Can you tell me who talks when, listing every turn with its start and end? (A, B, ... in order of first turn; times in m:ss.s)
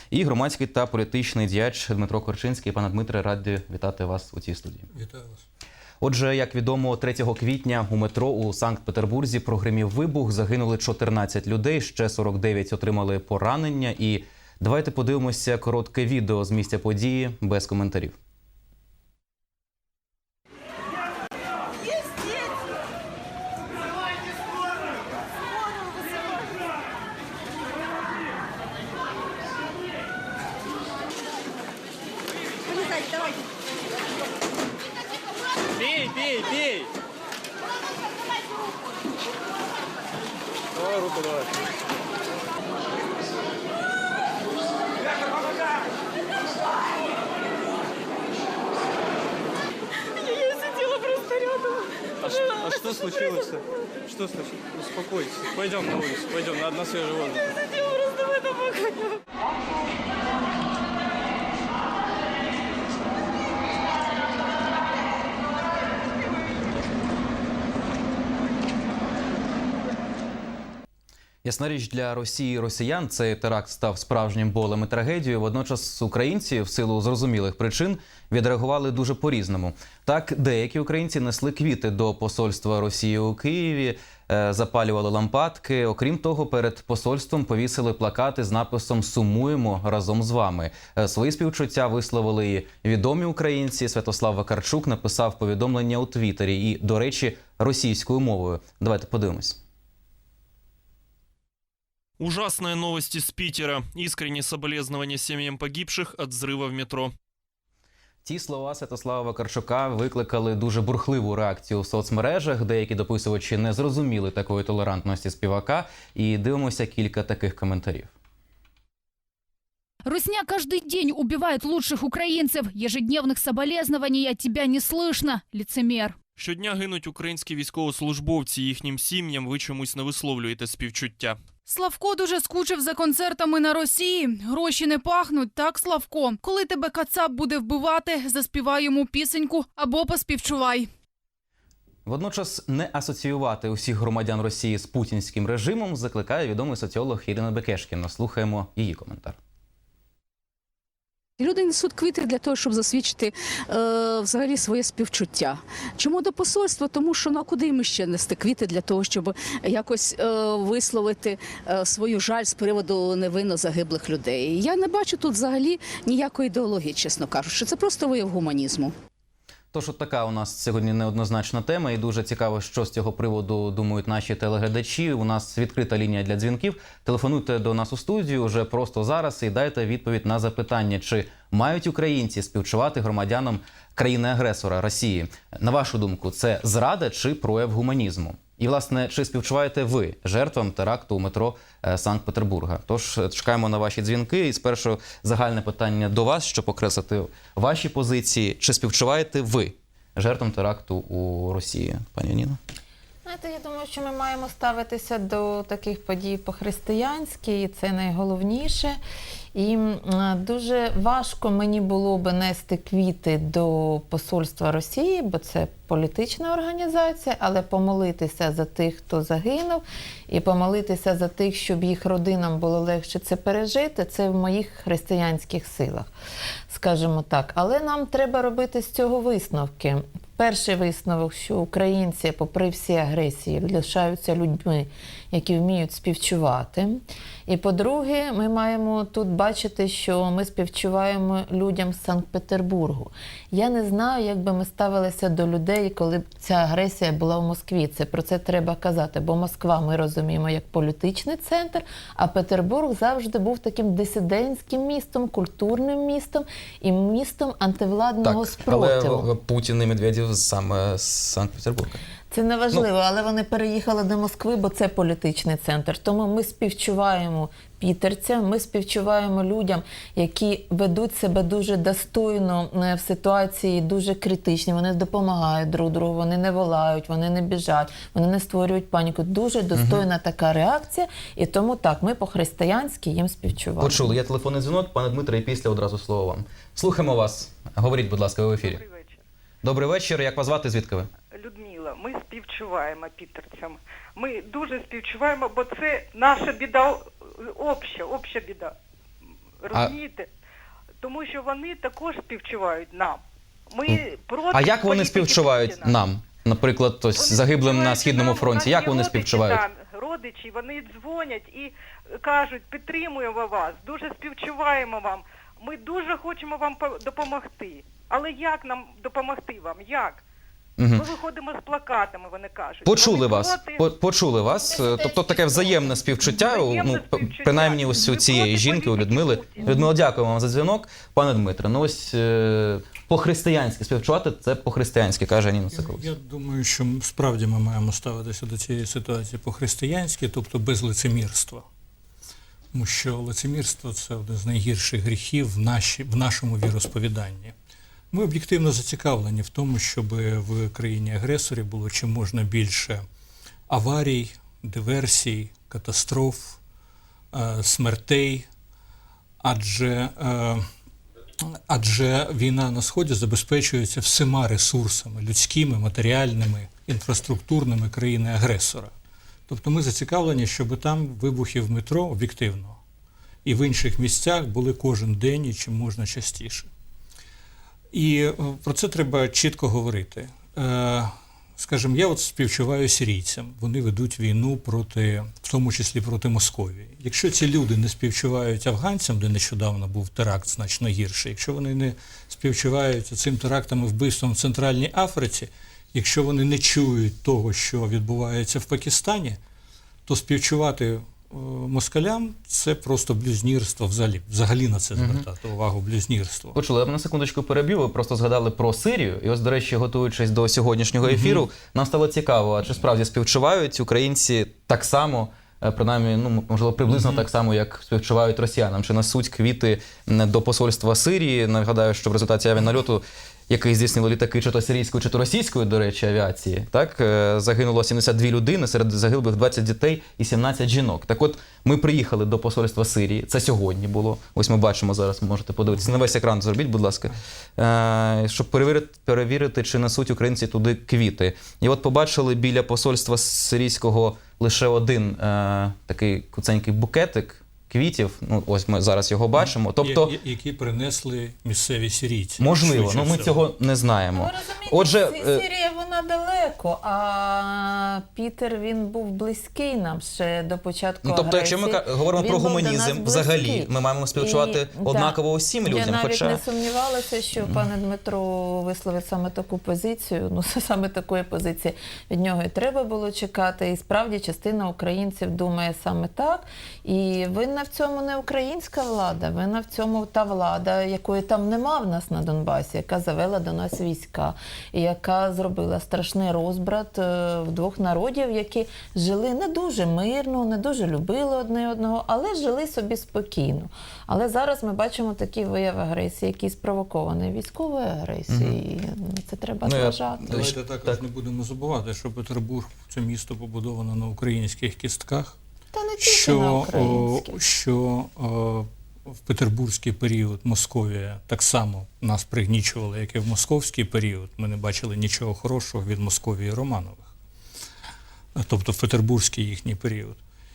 0:00.1-0:04.9 A
0:04.9-0:05.4 B
0:06.0-0:18.2 A
0:35.8-0:36.9 C
0:40.7-0:41.5 C
0:50.2-0:51.9 D
0:52.2-0:57.5 C
0:57.6-0:59.2 D
1:11.4-1:39.6 A
1:42.2-1:47.1 E
1:48.2-1:58.1 A
2:00.0-2:06.2 F
2:06.4-2:11.4 E
2:11.6-2:20.9 F
2:22.0-2:29.4 A
2:31.4-2:48.9 G
2:49.7-3:22.6 A
3:23.2-3:29.0 H
3:29.5-3:46.1 H
3:46.7-4:19.3 H
4:18.2-4:22.0 A
4:22.3-4:44.1 H
4:39.7-4:40.0 A
4:43.8-4:48.8 A
4:48.6-4:49.2 D
4:49.6-4:51.1 A
4:51.3-4:58.7 D
4:59.6-5:00.3 D
5:01.0-5:06.0 D
5:04.5-5:09.6 A
5:07.1-5:20.2 D
5:20.8-5:21.1 A
5:21.0-5:23.9 D
5:22.8-5:36.1 A
5:24.6-5:29.7 D
5:24.8-5:25.2 H
5:35.7-5:41.6 B
5:42.7-5:47.5 B
5:48.1-5:53.0 B
5:53.7-5:56.6 B
5:57.3-5:58.5 B
5:59.4-6:00.6 B
6:01.4-6:08.9 B
6:09.5-6:12.8 B
6:13.4-6:16.7 B
6:17.9-6:39.4 B
6:40.1-6:46.6 B
6:44.9-6:45.2 A
6:46.5-7:30.1 A
6:51.0-6:51.4 B
6:56.9-6:57.2 B
7:29.5-7:33.4 B
7:32.4-7:35.4 A
7:34.1-8:20.3 H
7:41.0-7:46.4 A
8:18.3-8:18.6 A
8:19.6-8:21.0 A
8:20.2-8:25.4 B
8:25.7-8:27.4 H
8:26.0-8:28.7 B
8:29.2-8:37.1 B
8:38.4-8:40.2 B